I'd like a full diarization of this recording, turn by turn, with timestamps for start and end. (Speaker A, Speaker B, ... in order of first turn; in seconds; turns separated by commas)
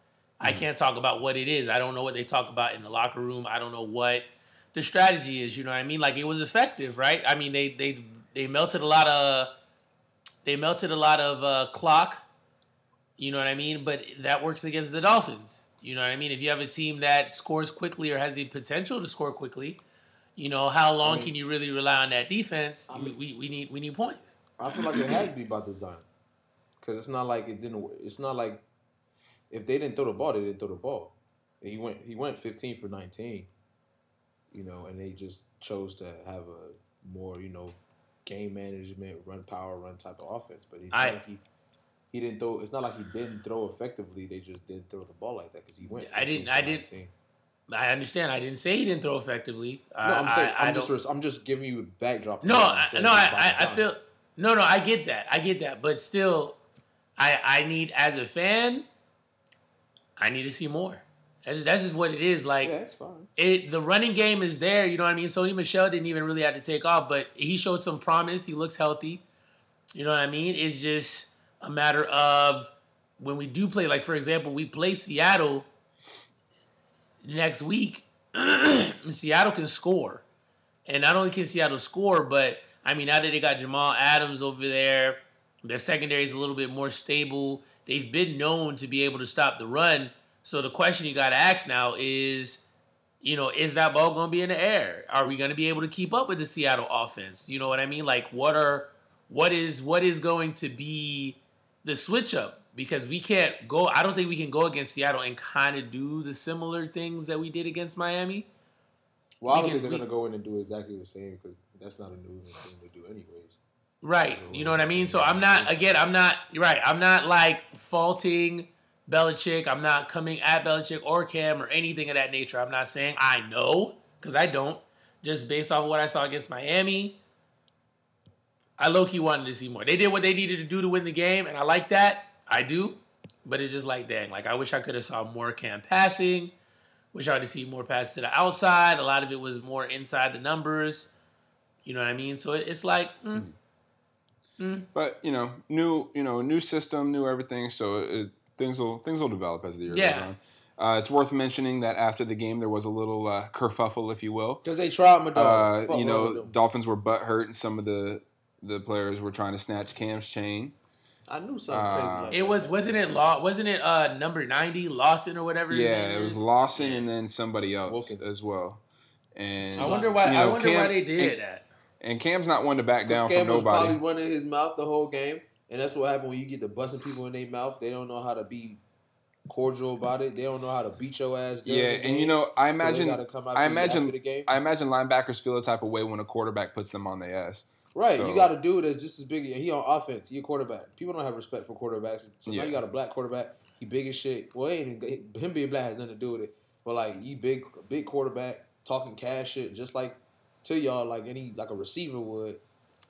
Speaker A: 0.4-9.5, Speaker A: 10.4-12.2, Speaker A: 13.2-19.8, Speaker A: 20.4-25.2, Speaker B: 21.0-21.3, Speaker B: 22.9-23.1, Speaker B: 24.6-26.1, Speaker B: 26.8-28.6, Speaker B: 29.5-33.5, Speaker B: 34.5-41.4, Speaker A: 40.9-41.2, Speaker B: 42.1-47.1, Speaker A: 45.9-46.9, Speaker A: 47.7-50.9, Speaker B: 50.0-53.9, Speaker A: 52.4-56.6, Speaker A: 57.2-58.9, Speaker A: 60.2-62.7, Speaker B: 62.6-63.3, Speaker A: 63.4-69.2, Speaker A: 69.9-75.7, Speaker A: 77.2-80.2, Speaker A: 80.8-92.6, Speaker A: 93.2-108.5, Speaker B: 109.4-113.6, Speaker A: 109.5-110.0, Speaker A: 114.0-127.2, Speaker B: 114.3-116.0, Speaker A: 128.8-136.5, Speaker A: 137.1-141.1, Speaker A: 141.8-143.5, Speaker A: 144.6-144.9, Speaker C: 144.9-154.6, Speaker A: 149.9-150.3, Speaker B: 154.6-156.5, Speaker C: 155.3-160.7, Speaker B: 161.3-163.1, Speaker C: 161.7-162.3, Speaker A: 162.3-167.1, Speaker C: 165.7-168.8, Speaker B: 167.8-168.3, Speaker C: 169.3-171.3, Speaker B: 169.6-170.5, Speaker A: 169.8-171.7, Speaker C: 172.0-174.0, Speaker B: 173.1-178.8, Speaker B: 179.5-184.5, Speaker C: 181.6-188.5, Speaker B: 187.9-202.6, Speaker C: 192.5-192.8